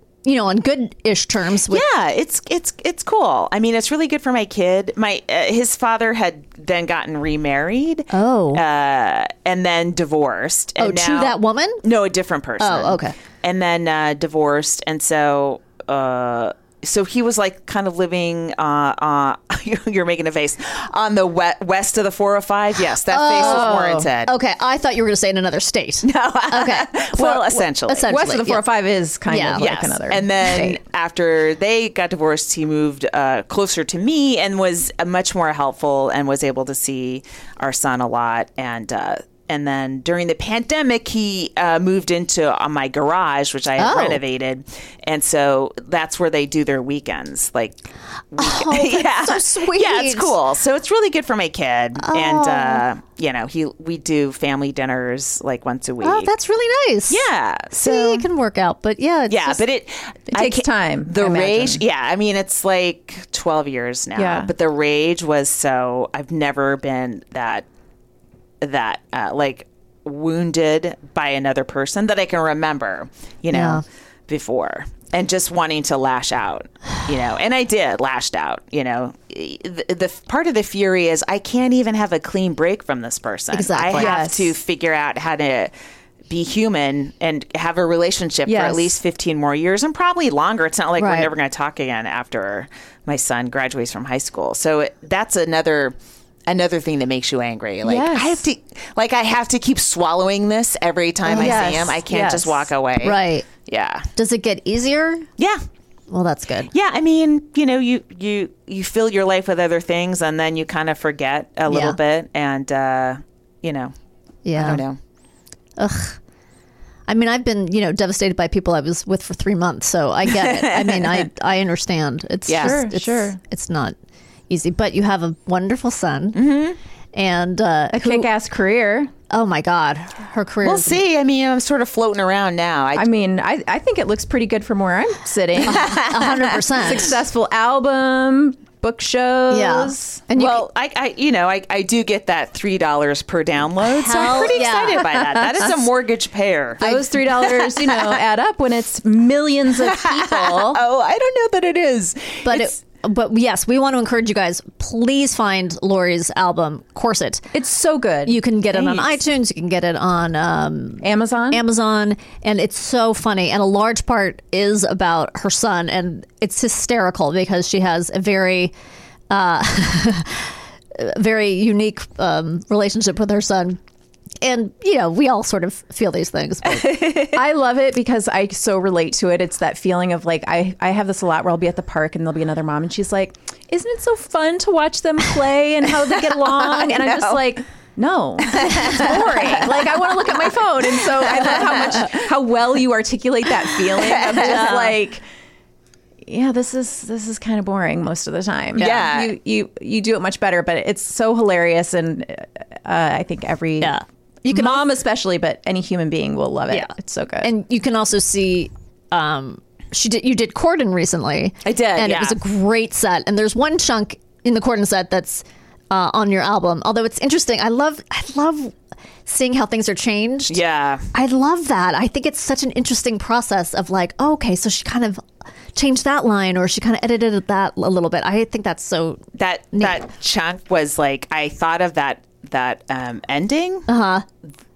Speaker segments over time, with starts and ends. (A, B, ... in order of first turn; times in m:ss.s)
0:00.2-0:01.9 A
0:01.7-0:24.3 B
0:08.1-0:08.6 A
0:10.8-0:11.8 A
0:12.6-0:13.1 A
0:23.1-0:28.6 A
0:23.4-0:24.1 C
0:26.0-0:28.1 B
0:28.0-0:30.3 C
0:29.3-0:29.7 A
0:29.6-0:56.3 B
0:30.4-0:30.8 A
0:43.8-0:44.2 A
0:48.4-0:50.3 A
0:52.0-0:52.8 A
0:56.0-0:59.6 A
0:57.1-0:58.3 B
0:59.3-1:07.7 B
1:00.3-1:01.8 C
1:04.2-1:04.5 C
1:08.6-1:25.7 B
1:13.5-1:13.8 A
1:23.5-1:24.2 A
1:23.9-1:24.6 C
1:26.3-1:36.0 B
1:28.5-1:29.0 C
1:31.0-1:31.3 A
1:36.5-1:44.1 B
1:37.8-1:38.4 C
1:41.2-1:41.9 A
1:41.4-1:42.7 C
1:43.0-1:43.5 A
1:44.2-1:45.3 A
1:46.1-1:46.7 A
1:46.7-1:53.9 B
1:51.7-1:52.0 A
1:54.4-1:54.8 A
1:54.6-1:55.0 B
1:55.8-1:56.2 A
1:57.1-2:04.0 A
2:00.3-2:01.3 B
2:02.5-2:02.9 B
2:02.6-2:03.4 C
2:04.5-2:06.4 A
2:06.3-2:06.8 B
2:07.1-2:08.3 A
2:07.9-2:09.1 C
2:09.3-2:11.0 A
2:10.6-2:13.1 B
2:13.0-2:16.0 C
2:15.7-2:17.2 A
2:15.7-2:16.4 B
2:16.8-2:20.2 C
2:19.5-2:20.7 A
2:20.3-2:28.2 B
2:24.0-2:25.0 A
2:24.2-2:25.5 C
2:26.8-2:30.8 C
2:26.8-2:27.1 A
2:29.8-2:32.7 B
2:32.4-2:37.5 A
2:37.5-2:38.4 C
2:38.3-2:48.7 A
2:41.0-2:41.6 C
2:49.3-2:53.8 A
2:54.4-2:57.0 A
2:56.7-2:57.4 B
2:57.3-3:15.2 C
3:06.5-3:07.4 B
3:08.6-3:09.6 B
3:11.3-3:12.1 B
3:14.0-3:14.6 B
3:14.4-3:15.0 A
3:16.2-3:23.9 C
3:18.8-3:19.3 B
3:23.8-3:24.9 A
3:24.5-3:27.5 C
3:27.4-3:38.8 A
3:31.6-3:32.4 B
3:39.3-3:40.6 A
3:40.5-3:41.1 B
3:41.1-3:45.2 A
3:45.8-3:49.2 A
3:49.4-3:53.9 B
3:49.7-3:50.0 A
3:53.9-3:54.2 A